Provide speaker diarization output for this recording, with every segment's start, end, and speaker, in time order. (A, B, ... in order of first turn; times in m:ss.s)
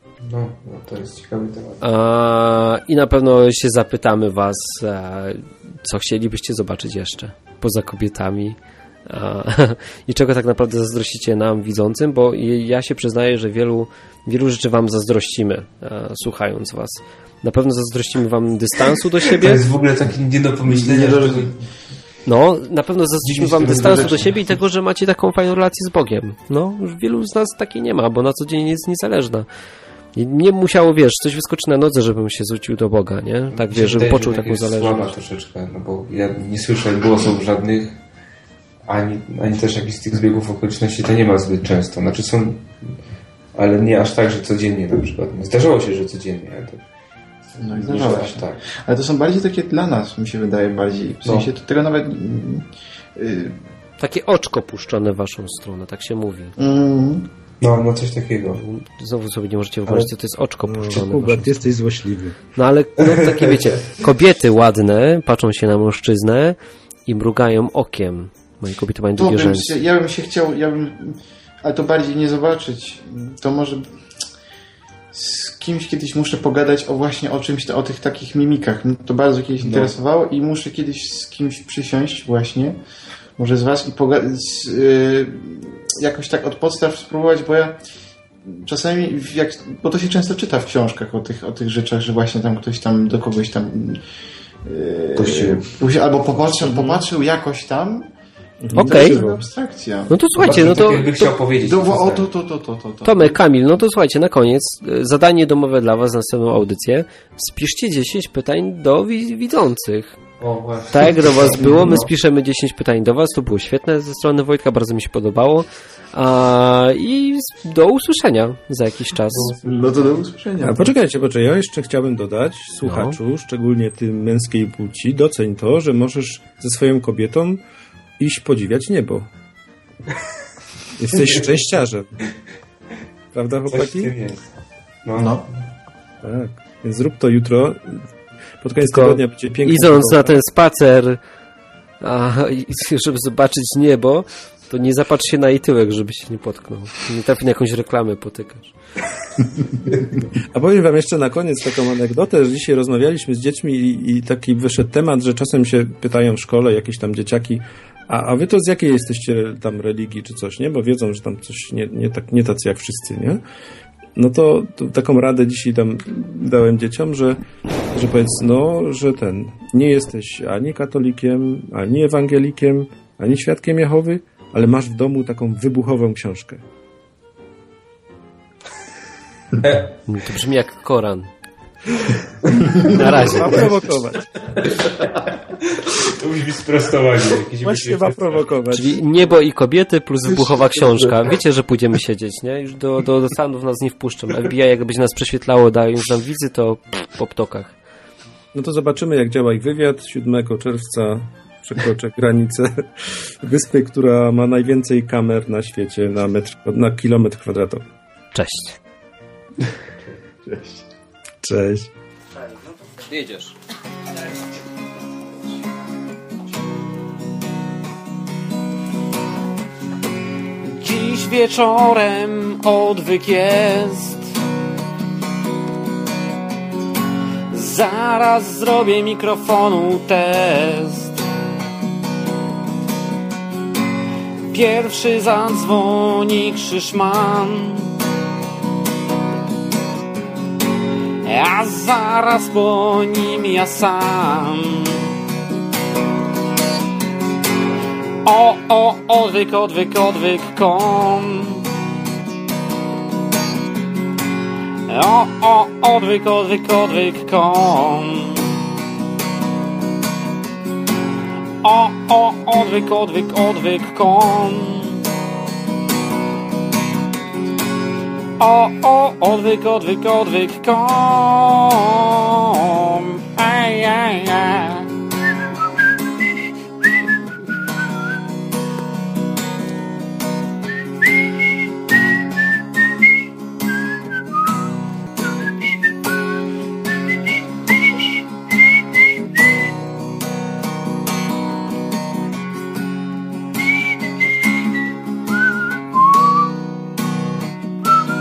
0:00.2-0:01.8 A
0:01.8-0:19.6 B
0:19.3-0:21.6 A
0:20.6-0:21.5 C
0:22.3-0:29.5 B
0:23.2-0:24.4 A
0:30.2-0:35.1 B
0:33.5-0:38.0 A
0:38.8-0:42.9 A
0:43.6-0:46.8 A
0:47.5-0:48.6 A
0:47.6-0:53.6 C
0:54.0-0:56.5 B
0:56.6-0:57.3 C
0:57.6-0:58.6 A
0:58.6-1:01.6 B
1:00.6-1:02.4 D
1:02.6-1:06.6 B
1:03.0-1:03.6 A
1:07.1-1:09.7 B
1:09.2-1:13.9 C
1:15.1-1:22.8 C
1:19.6-1:19.9 A
1:23.4-1:27.8 C
1:28.4-1:34.0 C
1:34.6-1:38.1 C
1:35.1-1:35.7 A
1:38.6-1:39.4 D
1:38.7-1:39.2 B
1:38.7-1:40.7 C
1:40.1-1:41.3 B
1:40.4-1:42.3 A
1:41.6-1:43.4 C
1:43.0-1:50.2 B
1:50.4-1:52.1 A
1:50.9-1:59.5 B
1:59.3-2:00.1 A
1:59.6-2:00.9 C
2:00.6-2:07.6 D
2:02.8-2:03.2 B
2:08.2-2:09.3 D
2:11.0-2:12.2 D
2:13.3-2:14.1 D
2:13.7-2:14.4 A
2:15.0-2:15.6 A
2:16.2-2:18.0 D
2:18.6-2:20.4 D
2:18.8-2:21.2 B
2:22.0-2:28.7 B
2:30.5-2:43.4 D
2:44.2-2:56.6 D
2:59.6-2:59.9 A
3:00.1-3:01.3 B
3:02.5-3:02.9 A
3:02.9-3:03.6 B
3:02.9-3:04.4 D
3:04.6-3:05.1 A
3:05.6-3:08.5 A
3:07.6-3:09.0 D
3:08.7-3:17.7 B
3:18.5-3:27.8 D
3:28.3-3:28.8 B
3:30.4-3:30.8 C
3:31.4-3:31.9 D
3:33.0-3:33.5 E
3:40.6-3:44.3 E
3:47.5-3:51.2 E
3:54.5-3:57.9 E
4:01.2-4:05.0 E
4:08.2-4:11.6 E
4:14.9-4:18.5 E
4:21.6-4:25.0 E
4:28.4-4:34.9 E